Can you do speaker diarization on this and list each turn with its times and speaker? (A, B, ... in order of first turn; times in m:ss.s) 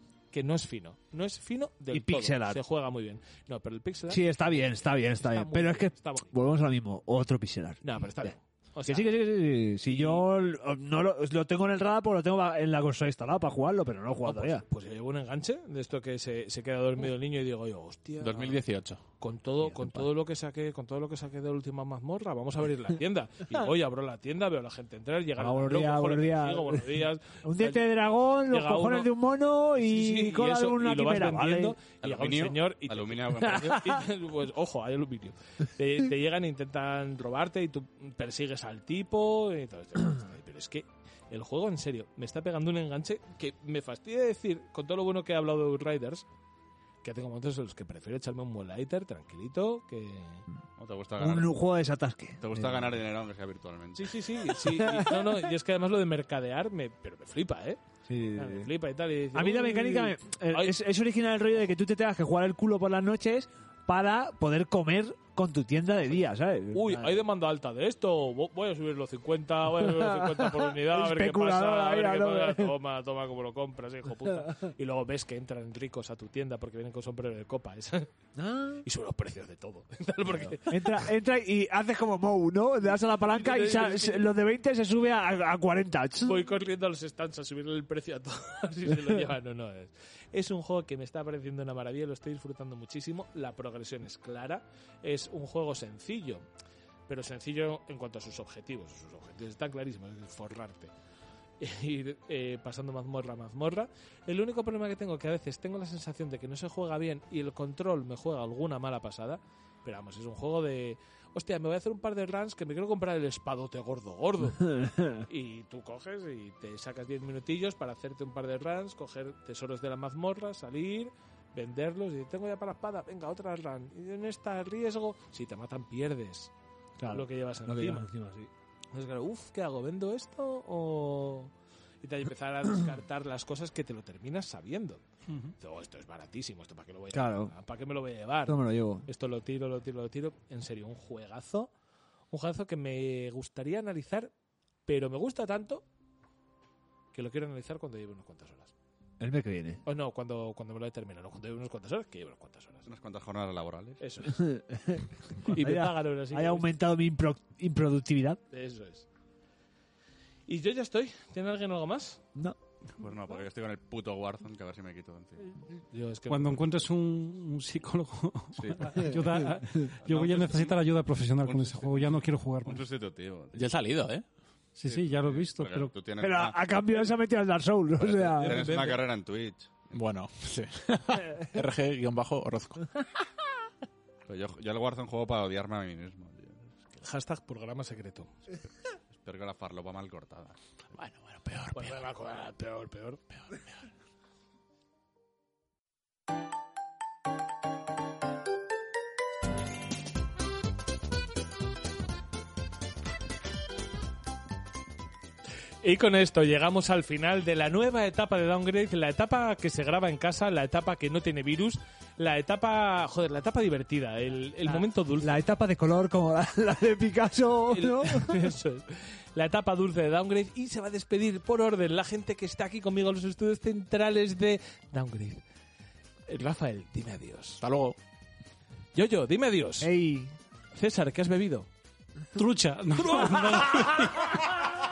0:00.3-0:06.3 A
0:01.9-0:02.6 B
0:04.1-0:14.6 B
0:07.8-0:09.2 A
0:09.8-0:10.2 A
0:14.2-0:18.6 A
0:18.2-0:19.0 C
0:19.2-0:27.8 A
0:19.6-0:20.1 B
0:25.4-0:31.8 B
0:28.5-0:29.1 A
0:29.7-0:46.2 A
0:32.0-0:34.0 D
0:33.6-0:33.9 B
0:47.0-0:50.4 A
0:50.8-0:51.6 D
0:51.2-0:53.0 B
0:52.4-0:54.2 D
0:54.0-0:57.8 A
0:54.7-0:55.4 B
0:58.1-0:58.7 B
0:58.3-1:00.8 A
0:59.3-1:07.2 B
1:06.7-1:18.1 A
1:09.8-1:12.7 B
1:18.4-1:18.8 B
1:18.8-1:21.1 A
1:20.6-1:26.4 B
1:22.9-1:24.3 A
1:26.2-1:36.4 A
1:37.1-1:40.9 A
1:41.6-1:54.7 A
1:54.6-1:55.2 B
1:55.2-2:06.5 A
2:07.0-2:08.5 B
2:07.1-2:08.1 A
2:08.9-2:11.5 A
2:12.0-2:15.0 A
2:15.6-2:21.7 A
2:17.1-2:17.5 B
2:18.5-2:19.0 B
2:22.3-2:24.3 A
2:24.8-2:25.8 A
2:27.1-2:28.7 A
2:29.2-2:29.8 B
2:29.8-2:32.9 A
2:32.8-2:34.0 D
2:34.0-2:34.4 A
2:34.3-2:38.4 B
2:35.4-2:36.7 A
2:38.5-2:39.0 A
2:40.5-2:42.2 A
2:43.0-2:45.5 D
2:45.9-2:46.9 A
2:46.3-2:52.8 E
2:48.6-2:49.0 D
2:49.2-2:49.8 A
2:50.0-2:50.8 D
2:51.4-2:52.1 D
2:52.6-2:53.6 D
2:53.5-2:54.2 C
2:54.8-2:55.9 E
2:54.8-2:56.7 D
2:56.2-2:58.7 B
2:58.0-2:59.7 D
2:58.4-2:58.9 E
2:58.4-2:58.7 A
2:59.9-3:03.0 C
3:04.2-3:06.7 D
3:07.0-3:08.4 A
3:09.1-3:10.5 D
3:10.9-3:12.0 C
3:11.7-3:13.2 A
3:25.8-3:35.4 A
3:34.7-3:38.5 B
3:37.7-3:45.4 A
3:46.3-3:47.6 A
3:47.6-3:48.0 C
3:48.9-3:49.9 A
3:49.8-3:50.3 B
3:50.7-3:51.7 A
3:52.3-3:54.5 E
3:53.0-3:54.3 A